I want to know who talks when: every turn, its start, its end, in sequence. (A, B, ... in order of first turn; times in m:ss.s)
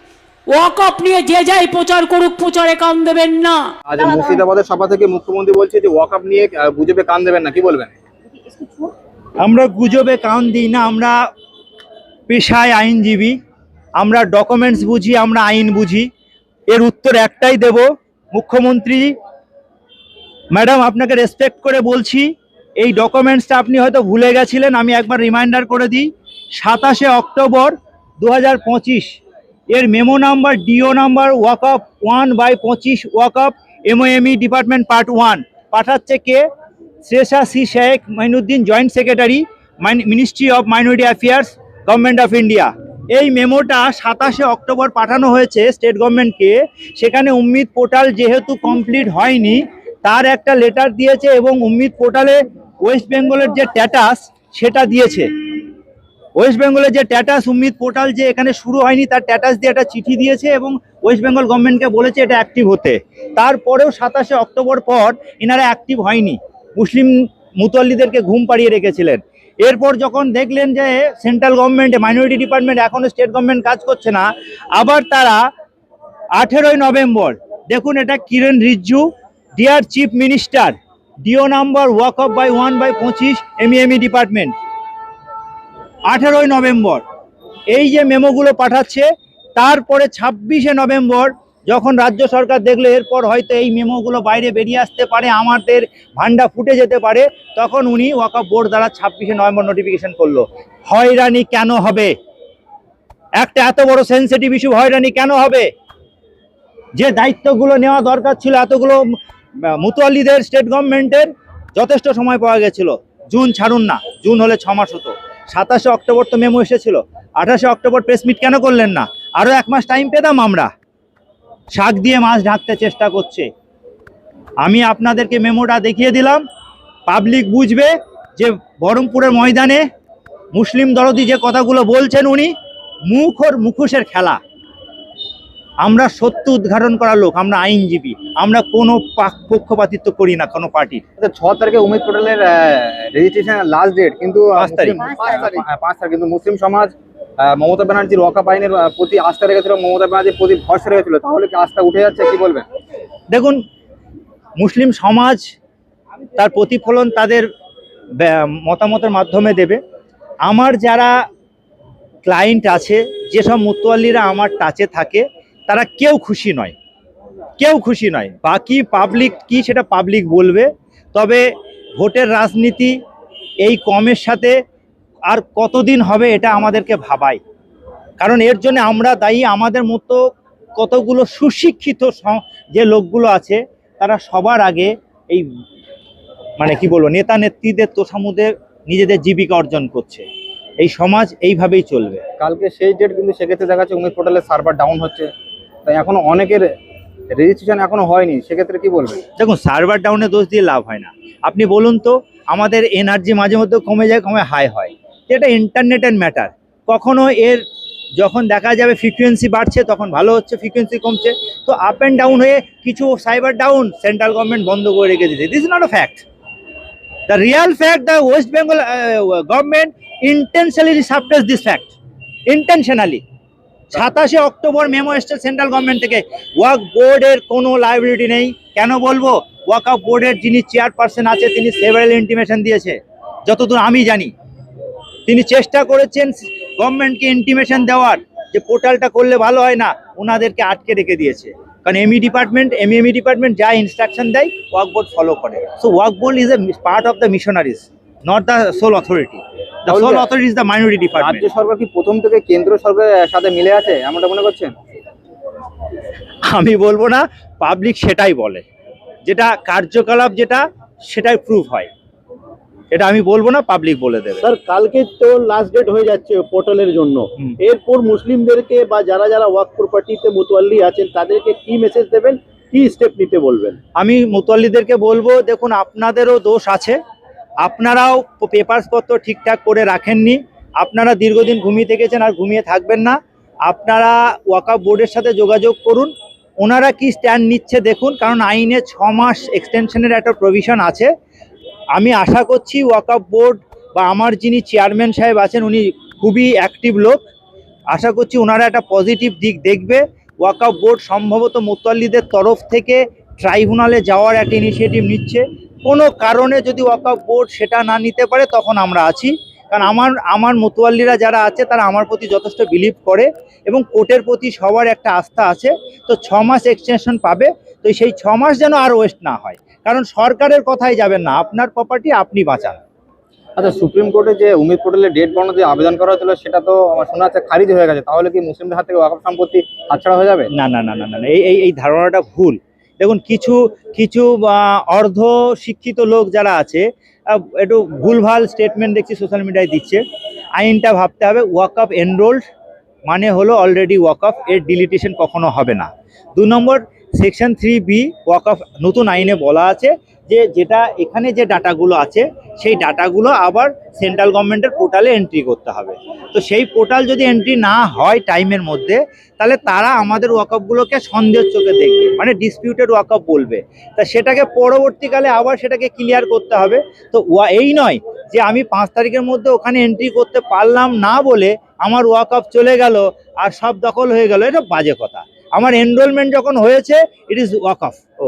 0:00.5-0:03.7 A
0:03.9-0:07.9 B
0:08.5-0:08.9 C
0:09.4-0:11.2 D
0:12.3-0:13.4 D
0:14.0-0:16.1 D
0:16.7-0:19.1 D
0:20.5-0:29.2 D
0:29.7-0:36.4 D
0:37.0-0:55.3 D
0:56.4-1:15.5 D
1:16.4-1:24.5 D
1:26.1-1:27.0 D
1:27.7-1:42.1 D
1:43.4-1:45.7 D
1:47.0-1:49.0 D
1:49.6-2:00.7 D
2:01.8-2:03.5 D
2:04.6-2:06.4 D
2:07.1-2:09.8 D
2:10.5-2:12.5 D
2:13.1-2:14.4 D
2:15.8-2:21.0 D
2:21.2-2:32.7 B
2:24.6-2:25.2 D
2:33.3-2:33.6 D
2:34.6-2:35.4 D
2:36.4-2:37.5 D
2:38.2-2:39.8 D
2:40.5-2:41.1 D
2:42.2-2:46.8 D
2:47.6-2:51.4 D
2:52.0-2:53.0 D
2:53.6-2:54.6 D
2:55.3-2:57.4 D
2:58.2-3:00.2 D
3:00.8-3:05.5 D
3:06.6-3:10.3 D
3:10.8-3:12.2 D
3:12.4-3:15.3 B
3:15.9-3:16.6 B
3:17.3-3:19.2 B
3:19.4-3:27.6 D
3:28.2-3:36.2 D
3:37.3-3:41.9 D
3:42.5-3:43.2 D
3:43.9-3:54.3 D
3:55.3-4:11.5 D
4:09.9-4:10.3 B
4:11.2-4:14.7 B
4:16.5-4:18.7 D
4:19.3-4:21.9 D
4:22.9-4:24.4 D
4:24.4-4:33.8 C
4:34.0-4:37.0 D
4:37.6-4:51.1 D
4:51.9-4:57.2 D
4:57.9-5:22.8 D
5:23.6-5:30.5 B
5:30.5-5:40.0 D
5:40.6-5:42.4 D
5:43.1-6:18.0 D